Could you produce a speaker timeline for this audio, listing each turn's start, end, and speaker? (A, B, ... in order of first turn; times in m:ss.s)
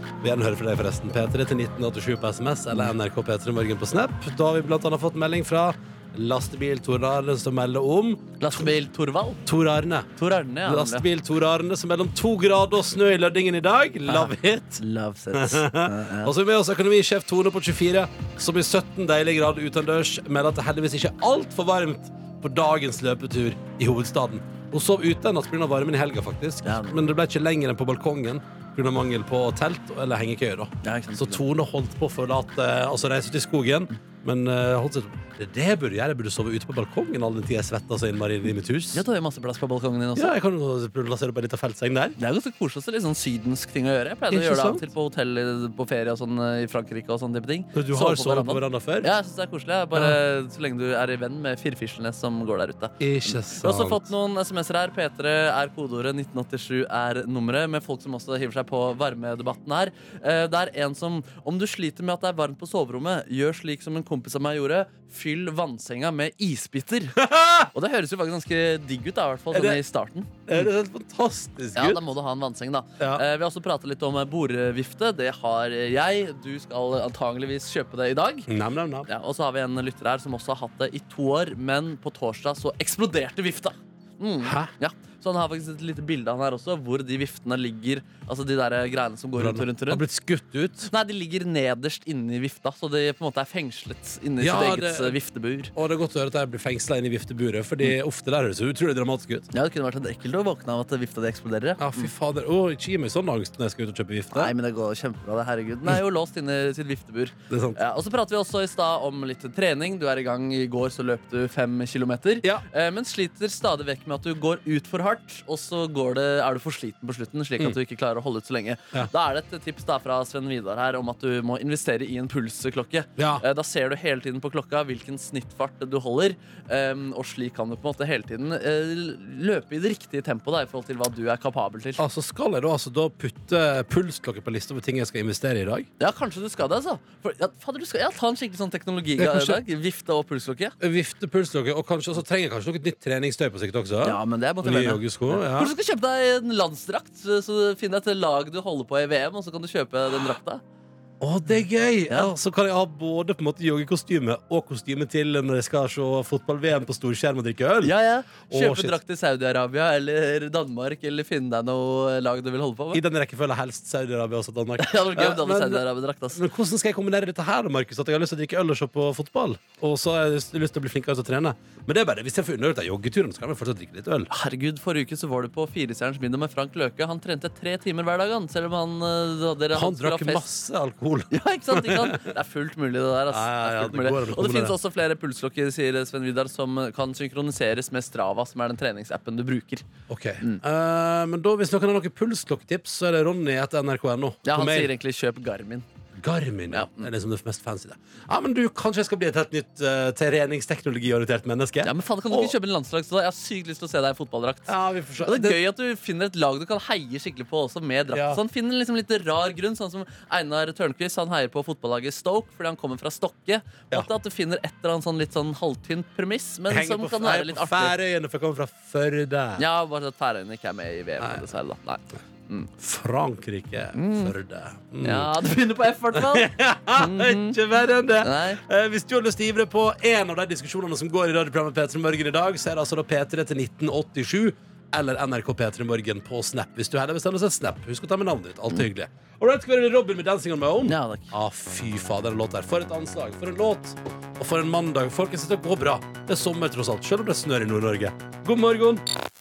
0:00.2-0:08.7 A
0:08.4-0:09.4 B
0:09.4-0:10.1 A
0:10.1-0:11.0 B
0:10.6-0:14.8 A
0:14.1-0:16.3 B
0:15.3-0:39.0 A
0:26.6-0:27.0 B
0:30.8-0:31.4 B
0:38.9-0:40.4 B
0:40.2-0:42.2 A
0:42.2-1:10.7 B
0:44.3-0:44.8 A
0:47.7-0:49.1 A
0:53.0-0:54.1 A
1:07.2-1:07.7 A
1:09.5-1:09.8 A
1:10.5-1:12.0 A
1:11.7-1:18.5 B
1:13.0-1:13.2 A
1:18.5-1:19.1 A
1:19.1-1:30.0 B
1:24.4-1:24.7 A
1:29.4-1:30.9 A
1:30.9-1:35.7 B
1:34.4-1:35.2 A
1:35.7-1:39.5 A
1:39.5-1:42.1 B
1:41.8-1:44.5 A
1:44.3-2:12.0 B
1:47.5-1:47.8 A
2:03.2-2:03.4 A
2:12.0-2:15.9 A
2:16.0-2:20.8 B
2:19.2-2:19.6 A
2:20.8-2:25.7 A
2:24.0-2:30.6 B
2:31.2-2:37.9 A
2:37.8-2:43.0 B
2:38.5-2:39.0 A
2:42.9-2:54.3 A
2:44.8-2:46.4 B
2:54.3-3:00.4 B
2:59.7-3:02.3 A
3:01.3-3:09.8 B
3:03.3-3:04.8 A
3:10.1-3:14.9 A
3:14.4-3:15.8 B
3:16.2-3:22.5 A
3:16.7-3:17.1 B
3:21.8-3:37.9 B
3:24.7-3:25.6 A
3:28.1-3:28.4 A
3:36.7-3:39.6 A
3:39.6-3:42.7 B
3:41.2-3:41.4 A
3:42.8-3:45.4 A
3:43.9-3:44.3 B
3:45.0-3:47.6 B
3:46.1-4:09.0 A
3:48.2-3:48.6 B
4:00.8-4:01.3 B